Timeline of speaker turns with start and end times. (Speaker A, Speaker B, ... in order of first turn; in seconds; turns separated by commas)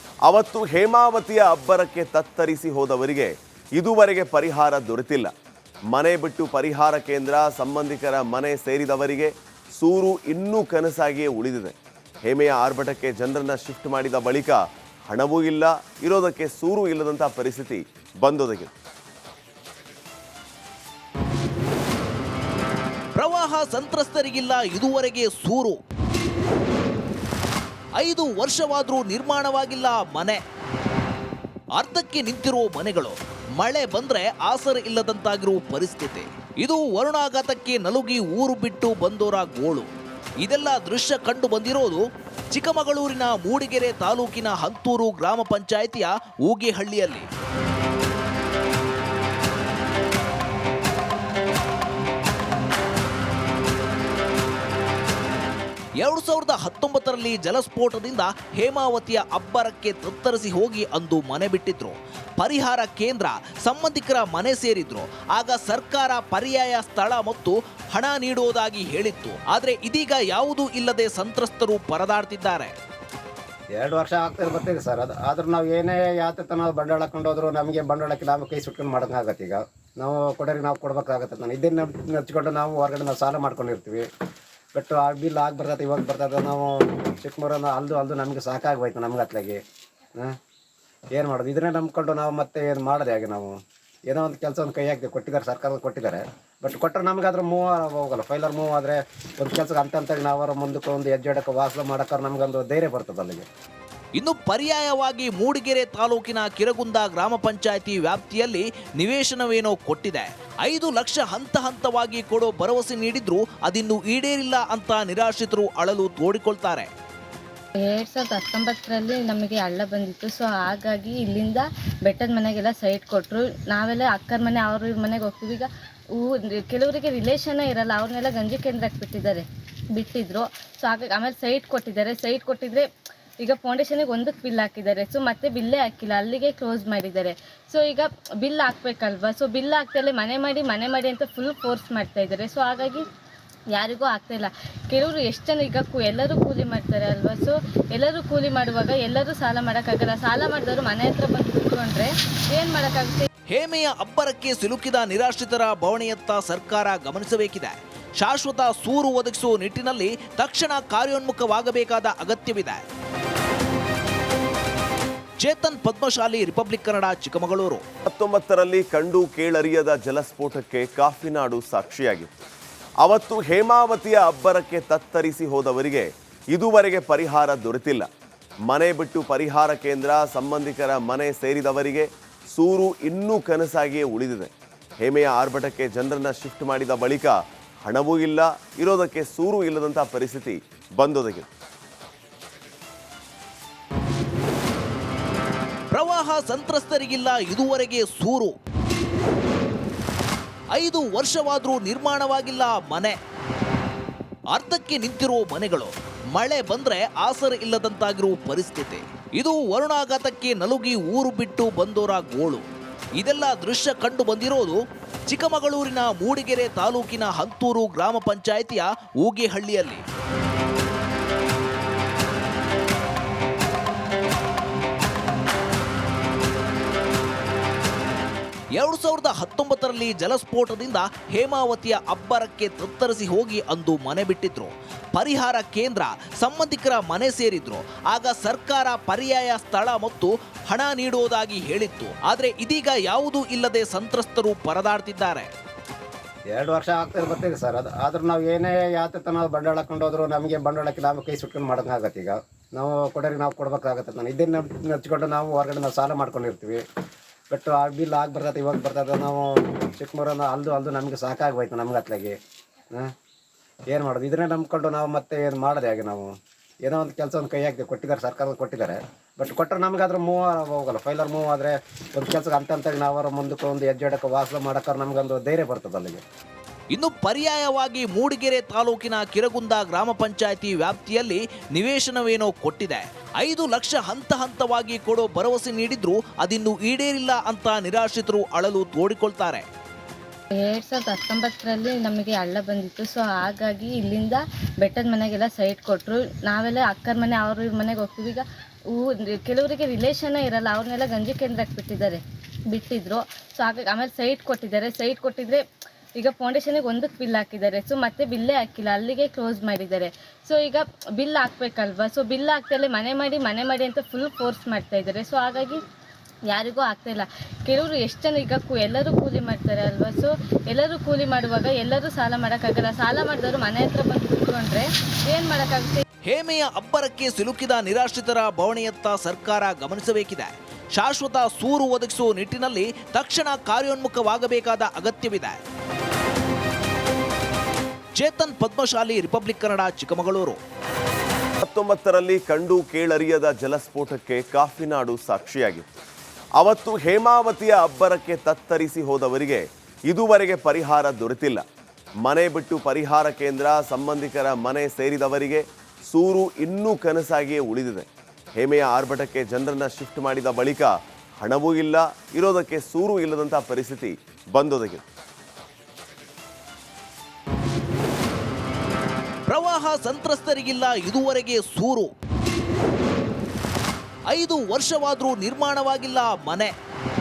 Speaker A: 0.2-5.3, Speaker A: 5.9-18.7, Speaker B: 23.1-25.8, Speaker B: 28.0-30.4, Speaker B: 31.7-39.9, Speaker B: 40.4-47.3, Speaker B: 56.0-72.7, Speaker C: 73.8-84.0, Speaker C: 84.7-89.6, Speaker C: 91.1-93.5, Speaker C: 94.1-103.4, Speaker B: 104.2-116.9, Speaker D: 117.8-132.8, Speaker D: 133.4-143.0, Speaker D: 143.7-153.3, Speaker B: 153.5-162.8, Speaker B: 165.4-167.8, Speaker A: 168.1-172.3, Speaker A: 173.0-178.1, Speaker A: 178.7-191.5, Speaker B: 195.9-198.5, Speaker B: 200.7-203.2, Speaker B: 204.5-212.6, Speaker B: 213.2-220.0, Speaker B: 228.7-245.5, Speaker C: 246.5-256.8, Speaker C: 257.5-262.3, Speaker C: 263.9-266.3, Speaker C: 266.8-276.2, Speaker B: 276.9-289.6, Speaker D: 290.6-305.6, Speaker D: 306.1-315.8, Speaker D: 316.5-326.0, Speaker B: 326.2-335.6, Speaker B: 338.1-340.6, Speaker A: 341.6-345.9, Speaker A: 346.6-351.6, Speaker A: 352.2-365.0, Speaker B: 369.5-372.1, Speaker B: 374.3-376.7